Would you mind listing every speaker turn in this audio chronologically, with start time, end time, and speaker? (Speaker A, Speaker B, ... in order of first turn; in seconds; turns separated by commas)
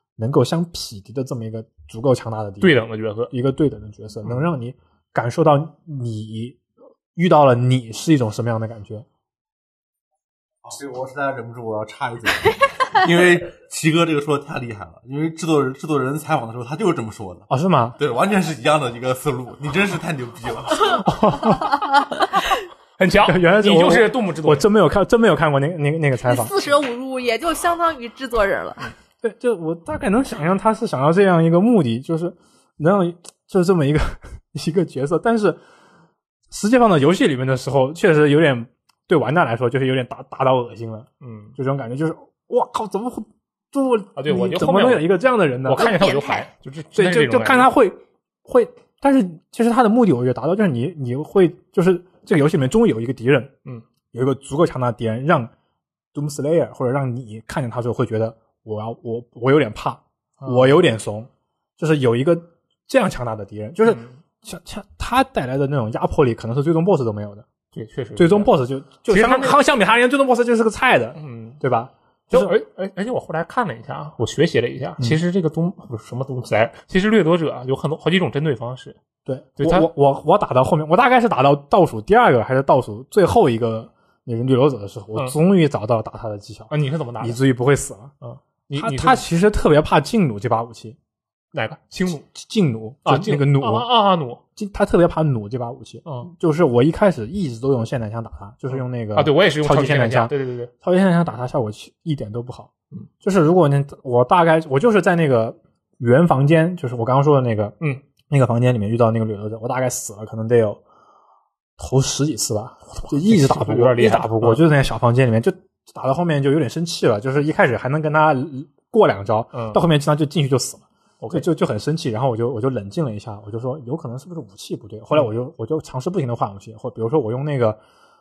Speaker A: 0.2-6.6, Speaker B: 2.6-3.3, Speaker A: 7.2-9.1, Speaker C: 10.6-21.3, Speaker A: 17.5-18.0, Speaker A: 21.0-21.8, Speaker B: 23.0-24.7, Speaker A: 23.2-26.6, Speaker D: 26.2-28.9, Speaker A: 29.2-35.6, Speaker A: 36.5-46.0, Speaker B: 41.2-41.5, Speaker B: 44.2-45.1, Speaker B: 45.6-47.7, Speaker D: 45.8-46.5, Speaker A: 46.9-53.5, Speaker A: 54.1-55.5, Speaker A: 56.1-67.5, Speaker B: 60.4-60.8, Speaker B: 63.9-64.2, Speaker B: 67.7-68.5, Speaker A: 68.2-72.5, Speaker B: 69.1-69.6, Speaker B: 71.2-71.6, Speaker B: 72.3-79.0, Speaker A: 79.3-88.1, Speaker B: 79.6-79.9, Speaker B: 86.7-87.4, Speaker B: 88.2-89.2, Speaker A: 88.8-91.0, Speaker B: 91.5-92.2, Speaker A: 92.3-93.9, Speaker B: 93.1-94.4, Speaker A: 94.6-102.7, Speaker B: 98.7-100.7, Speaker A: 103.2-107.8, Speaker A: 108.3-110.8, Speaker A: 111.8-127.8, Speaker B: 113.1-114.6, Speaker B: 119.5-119.8, Speaker B: 121.2-121.5